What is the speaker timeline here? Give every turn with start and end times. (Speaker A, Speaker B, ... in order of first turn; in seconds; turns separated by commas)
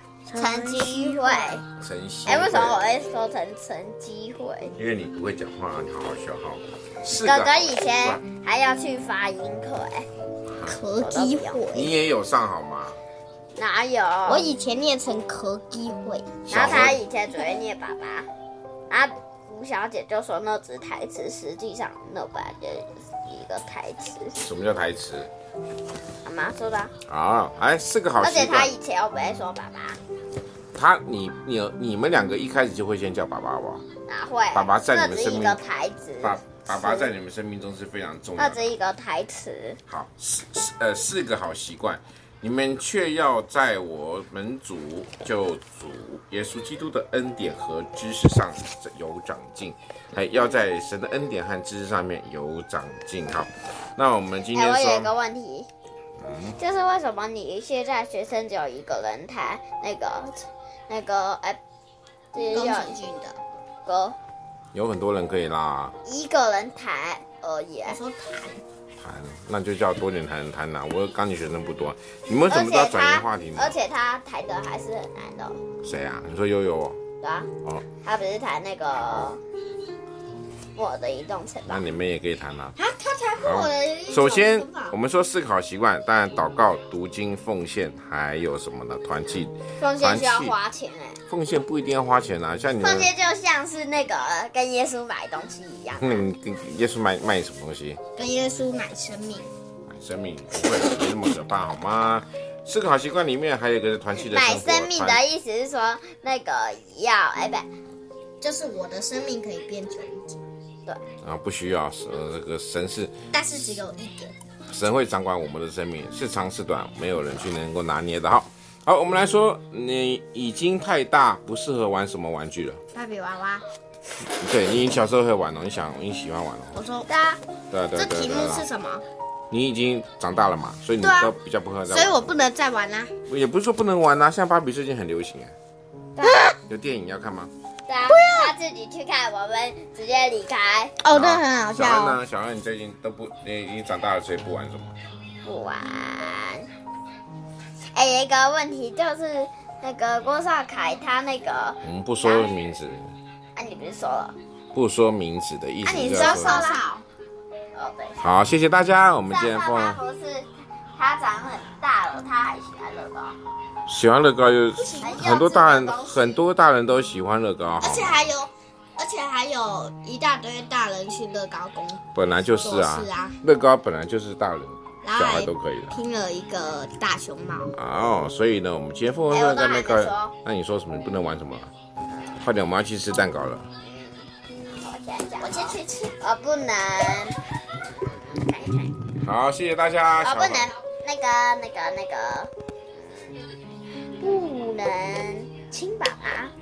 Speaker A: 0.3-1.6, Speaker B: 0.3-1.6, Speaker C: 1.8-2.9, Speaker B: 2.2-4.7, Speaker C: 4.8-8.2, Speaker B: 7.2-10.1, Speaker C: 10.6-10.8, Speaker A: 10.6-12.0, Speaker B: 10.9-11.6, Speaker C: 11.7-13.0, Speaker B: 13.6-14.5, Speaker A: 14.2-16.4, Speaker C: 16.5-17.0, Speaker B: 16.5-18.3, Speaker B: 18.9-24.4, Speaker C: 24.4-25.3, Speaker B: 26.2-26.9, Speaker C: 27.1-28.7, Speaker B: 28.2-30.0, Speaker C: 30.7-33.8, Speaker B: 34.1-37.1, Speaker C: 34.5-35.6, Speaker C: 36.2-38.7, Speaker B: 38.4-39.8, Speaker C: 39.9-55.1, Speaker B: 54.5-55.7, Speaker C: 56.2-56.6, Speaker B: 56.6-61.6, Speaker B: 62.3-63.0, Speaker A: 62.5-63.4, Speaker B: 63.9-64.2, Speaker C: 64.7-65.9, Speaker B: 66.0-68.0, Speaker A: 67.8-68.6, Speaker C: 69.0-73.7, Speaker B: 72.5-75.6, Speaker C: 75.8-77.0, Speaker B: 77.2-77.5, Speaker B: 78.0-79.4, Speaker B: 80.8-81.9, Speaker C: 81.7-82.7, Speaker A: 82.8-85.0, Speaker C: 83.4-90.5, Speaker B: 89.8-91.2, Speaker C: 91.3-93.1, Speaker B: 92.8-96.3, Speaker C: 96.0-98.0, Speaker A: 98.1-99.5, Speaker C: 99.9-105.2, Speaker B: 104.1-107.7, Speaker A: 108.4-110.4, Speaker C: 111.2-113.1, Speaker A: 113.3-114.3, Speaker C: 114.7-122.8, Speaker A: 122.9-123.6, Speaker C: 124.3-126.8, Speaker A: 126.7-127.4, Speaker C: 127.7-128.7, Speaker A: 127.9-129.0, Speaker C: 129.5-132.3, Speaker A: 131.0-131.3, Speaker A: 131.9-133.1, Speaker C: 133.3-135.5, Speaker B: 136.2-136.5, Speaker A: 136.2-136.5, Speaker C: 136.6-137.5, Speaker B: 137.9-141.0, Speaker A: 138.1-138.5, Speaker A: 141.0-142.2, Speaker C: 141.1-144.9, Speaker B: 145.4-146.7, Speaker B: 147.9-152.5, Speaker C: 151.8-153.1, Speaker B: 153.6-154.3, Speaker C: 154.7-156.6, Speaker A: 155.8-157.0, Speaker B: 156.1-156.8, Speaker B: 157.7-158.2, Speaker C: 158.2-160.0, Speaker B: 159.3-163.3, Speaker C: 163.9-168.2, Speaker A: 164.8-165.2, Speaker B: 165.0-166.4, Speaker A: 167.8-172.0, Speaker C: 172.1-176.0, Speaker A: 172.6-173.4, Speaker A: 175.0-177.7, Speaker C: 177.7-181.7, Speaker B: 179.3-180.3, Speaker C: 182.3-183.7, Speaker B: 183.8-187.4, Speaker A: 185.4-185.9, Speaker B: 188.1-188.9, Speaker C: 189.2-190.7, Speaker B: 190.1-192.5, Speaker B: 194.2-196.5